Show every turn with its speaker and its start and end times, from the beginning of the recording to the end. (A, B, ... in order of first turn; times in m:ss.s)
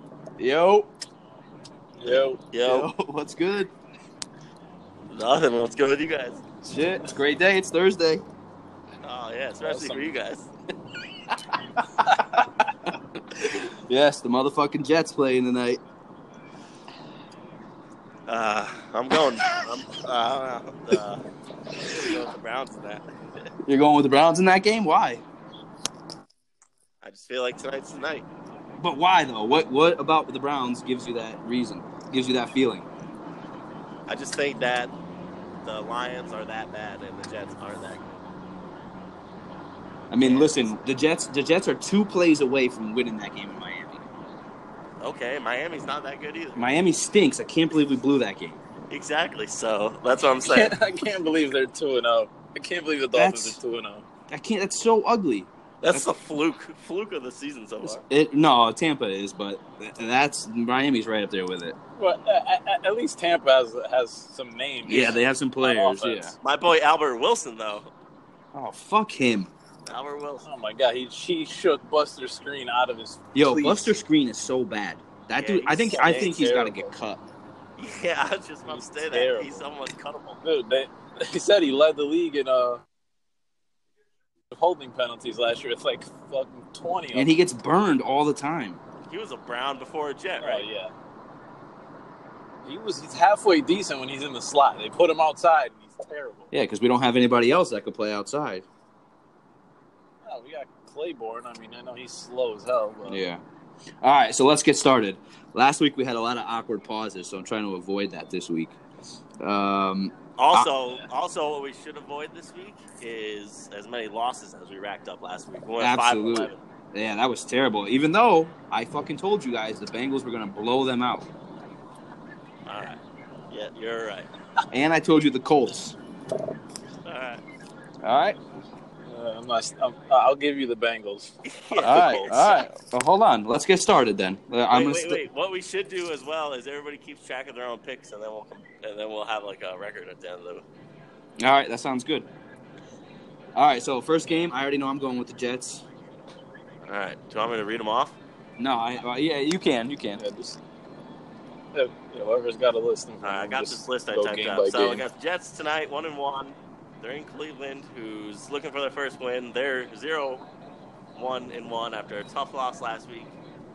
0:00.4-0:00.9 A
0:02.0-0:02.4 B
0:02.1-0:02.9 C
0:02.6-0:03.7 A
0:05.1-0:06.4 C
0:06.6-0:08.2 A
0:09.0-0:10.5 C
0:09.6-0:10.1 B
0:12.0-0:12.6 A
0:13.3-0:15.8 A
0:18.3-0:23.0 C
0:23.6-0:25.2 A
0:27.0-0:28.2 C
0:28.8-0:32.9 A
0:34.1-0:34.9 C
0:35.6-0:38.1 C
0:40.1-0:44.0 A
0:40.2-0:40.6 C
0:45.0-0:46.6 C
0:46.6-0:48.6 A
0:48.9-0:50.7 C
0:50.4-0:54.1 B
0:53.1-0:53.6 A
0:54.3-0:56.2 A
0:55.8-0:58.0 C
0:57.8-1:01.8 A
1:02.0-1:06.4 B
1:04.8-1:06.3 A
1:04.8-1:05.2 C
1:06.4-1:07.9 C
1:08.5-1:09.5 A
1:09.8-1:10.4 C
1:10.4-1:13.9 B
1:13.3-1:17.2 A
1:15.4-1:16.1 C
1:15.9-1:16.9 B
1:17.8-1:20.4 C
1:18.6-1:19.7 B
1:20.4-1:22.8 B
1:24.5-1:27.3 B
1:27.1-1:28.8 A
1:29.1-1:30.6 C
1:30.4-1:30.9 B
1:32.6-1:36.5 B
1:36.5-1:38.6 A
1:40.2-1:43.2 B
1:43.1-1:43.4 A
1:44.0-1:48.8 A
1:49.4-1:50.7 A
1:50.4-1:56.6 C
1:55.8-2:01.3 A
2:02.6-2:03.0 C
2:03.5-2:04.3 C
2:04.7-2:06.0 A
2:07.0-2:07.4 C
2:08.0-2:08.4 A
2:09.1-2:12.3 B
2:11.4-2:12.6 C
2:11.8-2:15.2 A
2:14.7-2:20.6 C
2:21.4-2:22.3 A
2:23.5-2:25.8 A
2:26.8-2:28.2 C
2:28.6-2:30.2 A
2:30.2-2:30.6 B
2:31.7-2:35.0 B
2:33.2-2:40.4 C
2:41.1-2:43.3 C